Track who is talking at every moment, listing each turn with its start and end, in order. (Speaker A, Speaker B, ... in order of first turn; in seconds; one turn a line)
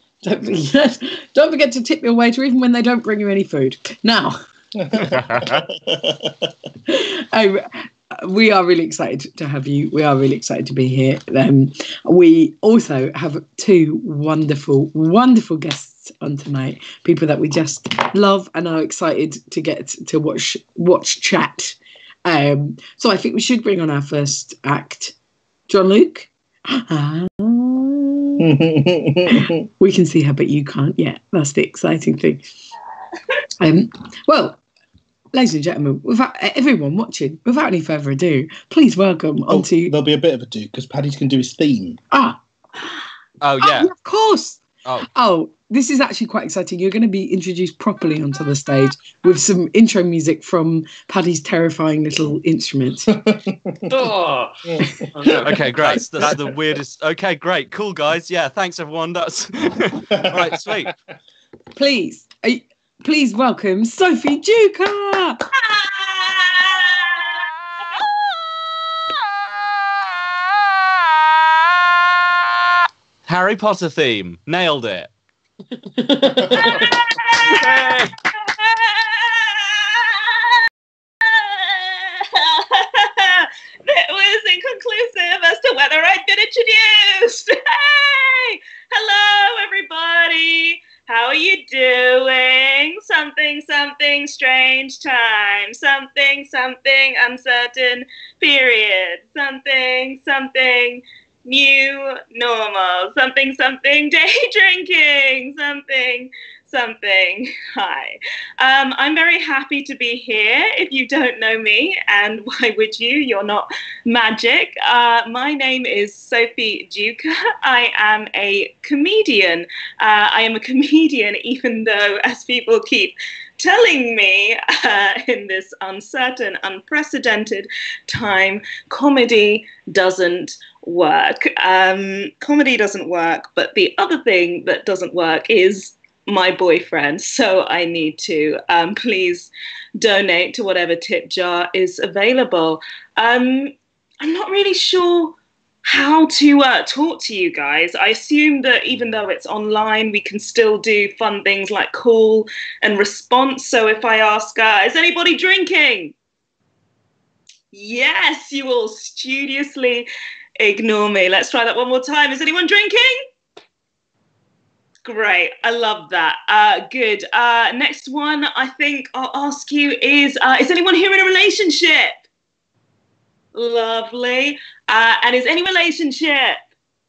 Speaker A: 0.2-4.4
Speaker B: 4.8-6.5
Speaker C: 5.1-5.7
Speaker A: 6.9-25.1
Speaker A: 25.7-28.4
Speaker B: 28.4-29.6
Speaker A: 29.8-32.4
Speaker A: 33.6-34.6
Speaker A: 35.3-40.0
Speaker B: 39.5-42.0
Speaker A: 42.1-42.8
Speaker C: 43.4-43.9
Speaker A: 43.6-44.6
Speaker A: 45.1-53.1
Speaker B: 53.1-54.1
Speaker D: 53.9-56.5
Speaker B: 54.7-56.4
Speaker C: 55.4-60.9
Speaker B: 60.1-60.9
Speaker A: 61.8-65.4
Speaker E: 65.6-67.3
Speaker C: 73.3-75.1
Speaker A: 76.0-76.7
Speaker E: 76.7-77.9
Speaker C: 77.4-78.2
Speaker E: 78.6-80.2
Speaker E: 81.2-156.1
Speaker E: 157.7-160.1
Speaker E: 160.6-163.2
Speaker E: 165.1-172.2
Speaker E: 173.6-176.6